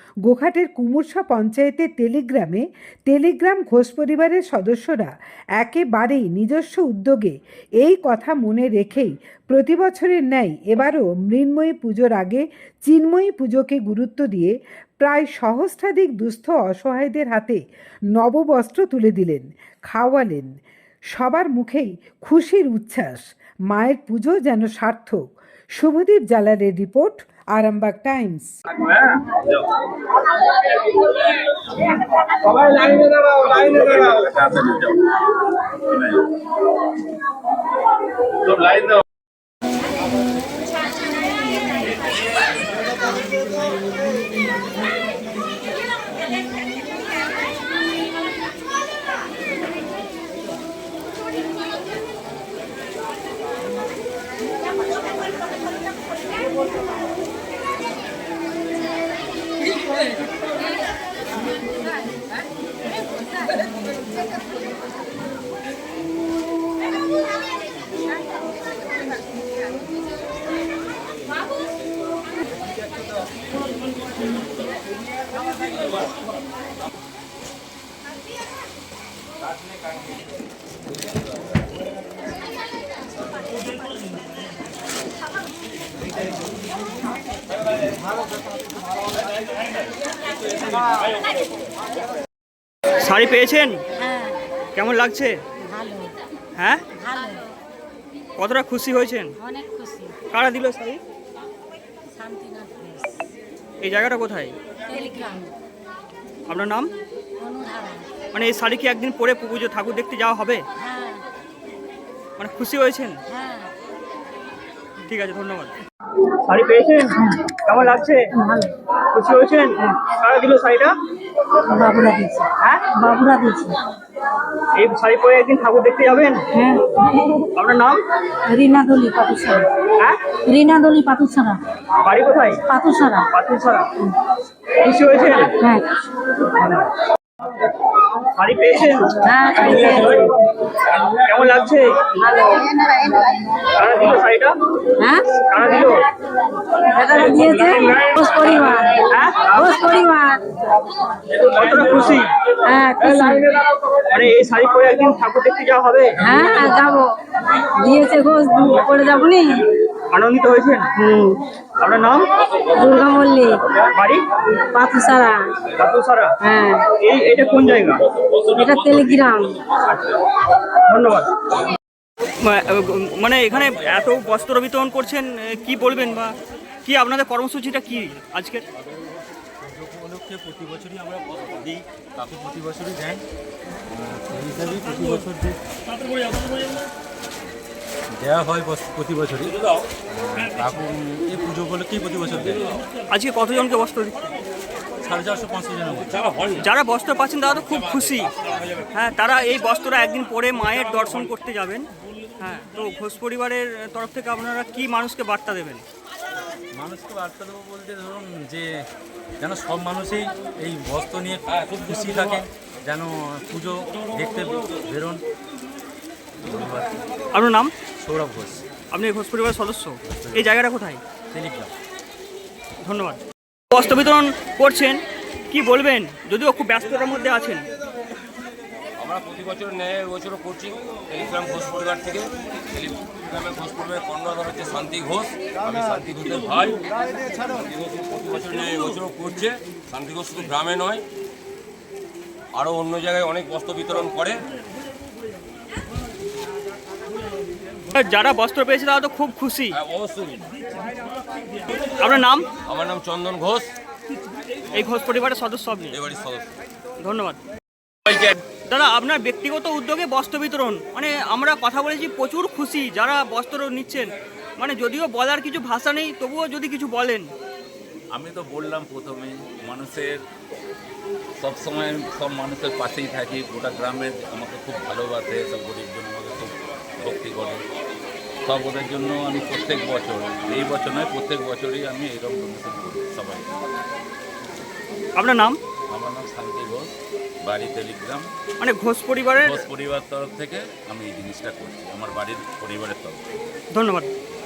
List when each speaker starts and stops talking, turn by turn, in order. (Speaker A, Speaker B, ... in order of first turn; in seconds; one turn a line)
Speaker A: 0.2-17.6
Speaker A: 18.1-20.5
Speaker A: 21.1-25.2
Speaker A: 25.8-28.5
Speaker B: 33.6-34.7
Speaker B: 38.6-38.9
Speaker C: 93.0-93.8
Speaker C: 94.7-95.3
Speaker D: 95.8-96.1
Speaker C: 96.6-96.8
Speaker C: 98.4-99.3
Speaker D: 99.6-100.2
Speaker C: 100.3-101.0
Speaker D: 102.2-103.0
Speaker C: 103.8-104.5
Speaker D: 105.0-105.5
Speaker C: 106.5-106.9
Speaker D: 107.5-108.0
Speaker C: 108.3-110.6
Speaker C: 112.4-113.2
Speaker C: 115.0-115.7
Speaker C: 116.5-118.2
Speaker D: 118.4-118.7
Speaker C: 119.1-120.9
Speaker D: 121.7-123.8
Speaker C: 124.8-126.4
Speaker D: 126.5-126.9
Speaker C: 127.5-128.0
Speaker D: 128.5-129.7
Speaker D: 130.4-131.6
Speaker C: 132.0-132.6
Speaker D: 132.7-133.3
Speaker C: 133.3-133.9
Speaker C: 134.8-135.5
Speaker C: 136.5-136.9
Speaker C: 138.3-139.2
Speaker D: 139.2-140.2
Speaker C: 141.0-142.1
Speaker D: 142.2-143.1
Speaker C: 143.7-144.5
Speaker D: 145.0-145.4
Speaker C: 145.4-146.0
Speaker D: 146.9-150.4
Speaker C: 149.0-149.7
Speaker C: 151.4-152.3
Speaker D: 152.6-153.5
Speaker C: 154.0-156.2
Speaker D: 156.2-157.1
Speaker D: 157.8-159.6
Speaker C: 160.1-160.9
Speaker D: 161.0-161.4
Speaker C: 161.8-162.3
Speaker D: 162.7-163.6
Speaker C: 163.9-164.2
Speaker D: 164.7-165.6
Speaker C: 165.7-166.3
Speaker D: 166.4-166.9
Speaker C: 167.0-168.0
Speaker D: 168.5-169.5
Speaker C: 170.9-171.3
Speaker C: 172.4-176.3
Speaker C: 176.8-178.6
Speaker E: 179.6-183.2
Speaker E: 183.9-185.6
Speaker E: 188.2-189.6
Speaker E: 190.1-192.7
Speaker C: 193.1-194.3
Speaker E: 195.0-196.4
Speaker C: 196.6-198.3
Speaker C: 198.9-201.8
Speaker C: 202.4-205.8
Speaker E: 206.7-208.8
Speaker E: 209.4-215.2
Speaker E: 216.5-217.0
Speaker C: 217.3-217.7
Speaker E: 218.0-218.6
Speaker C: 218.9-221.0
Speaker E: 221.3-221.7
Speaker C: 222.8-223.2
Speaker C: 223.7-225.0
Speaker C: 225.5-227.6
Speaker F: 229.0-241.0
Speaker F: 242.5-244.4
Speaker C: 247.9-249.7
Speaker F: 249.7-250.5
Speaker C: 252.0-252.4
Speaker F: 252.7-253.7
Speaker C: 254.8-256.0
Speaker F: 255.9-256.5
Speaker C: 257.0-257.4
Speaker C: 258.1-267.2
Speaker B: 268.1-270.2
Speaker B: 271.4-277.6
Speaker B: 278.4-283.5
Speaker C: 285.2-285.6
Speaker B: 285.9-288.3
Speaker C: 288.6-289.6
Speaker B: 289.3-293.2
Speaker C: 293.7-294.1